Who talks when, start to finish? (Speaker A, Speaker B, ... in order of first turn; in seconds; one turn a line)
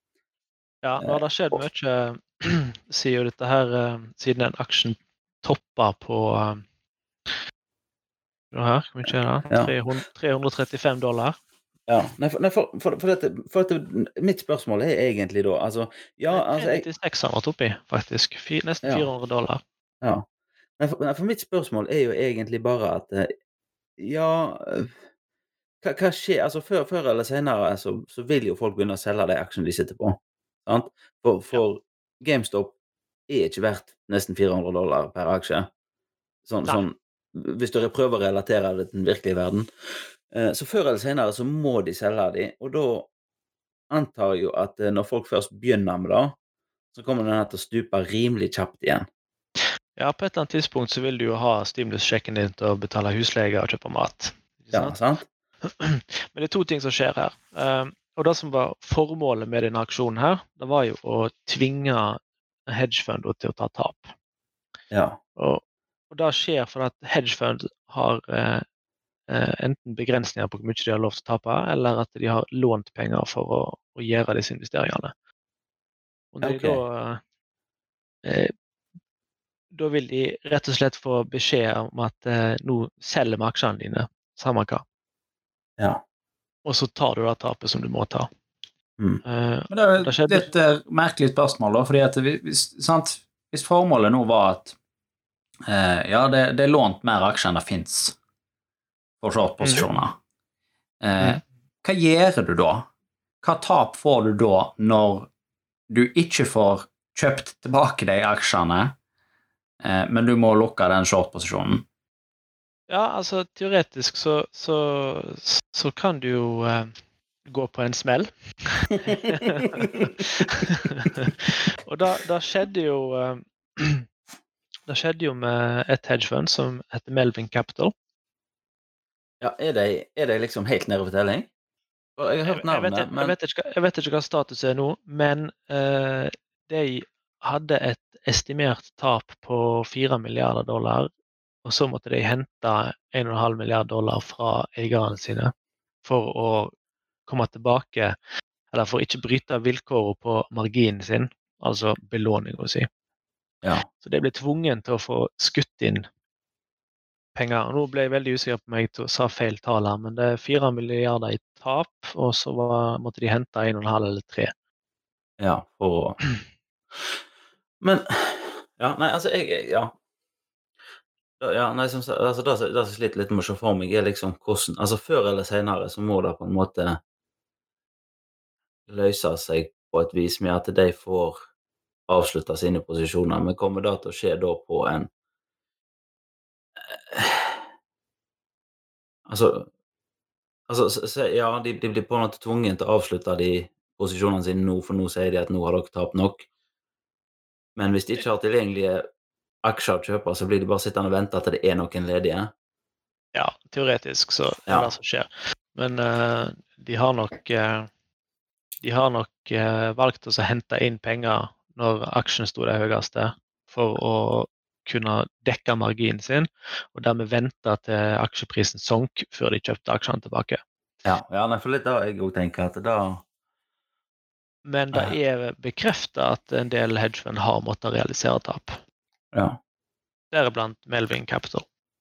Speaker A: 0.8-6.6
Speaker B: 1.0-1.6
Speaker A: 8.5-11.4
Speaker B: 9.5-9.7
Speaker B: 11.9-16.8
Speaker A: 16.3-19.6
Speaker B: 20.8-23.3
Speaker B: 24.0-24.9
Speaker B: 25.8-32.7
Speaker B: 33.3-35.7
Speaker B: 36.4-39.7
Speaker B: 40.3-43.1
Speaker B: 43.9-46.4
Speaker B: 46.9-49.1
Speaker A: 50.0-55.0
Speaker B: 54.7-55.2
Speaker A: 55.6-64.1
Speaker B: 64.9-65.2
Speaker A: 65.4-68.6
Speaker A: 69.3-75.1
Speaker A: 76.3-77.2
Speaker B: 76.4-76.8
Speaker A: 78.2-78.5
Speaker A: 79.7-84.8
Speaker A: 86.6-88.3
Speaker A: 89.2-90.5
Speaker C: 89.7-94.7
Speaker C: 95.7-98.2
Speaker C: 99.2-100.2
Speaker C: 101.0-102.9
Speaker C: 103.4-105.3
Speaker C: 105.9-109.0
Speaker C: 109.8-111.8
Speaker A: 112.9-116.9
Speaker A: 117.5-124.0
Speaker B: 119.5-119.8
Speaker A: 124.9-127.9
Speaker B: 129.4-131.5
Speaker B: 132.2-133.3
Speaker A: 132.4-141.1
Speaker A: 141.6-145.5
Speaker A: 146.0-146.7
Speaker A: 147.3-148.2
Speaker A: 148.7-152.9
Speaker A: 154.0-156.1
Speaker A: 157.3-164.5
Speaker B: 165.4-166.2
Speaker B: 167.8-169.9
Speaker B: 171.4-177.0
Speaker B: 178.9-181.4
Speaker B: 182.1-185.1
Speaker B: 186.9-187.7
Speaker B: 189.2-189.7
Speaker B: 190.7-196.4
Speaker B: 197.8-199.1
Speaker B: 199.6-202.5
Speaker A: 203.3-207.9
Speaker A: 208.8-220.6
Speaker B: 221.0-223.2
Speaker A: 224.7-228.8
Speaker B: 229.3-229.6
Speaker A: 230.3-231.7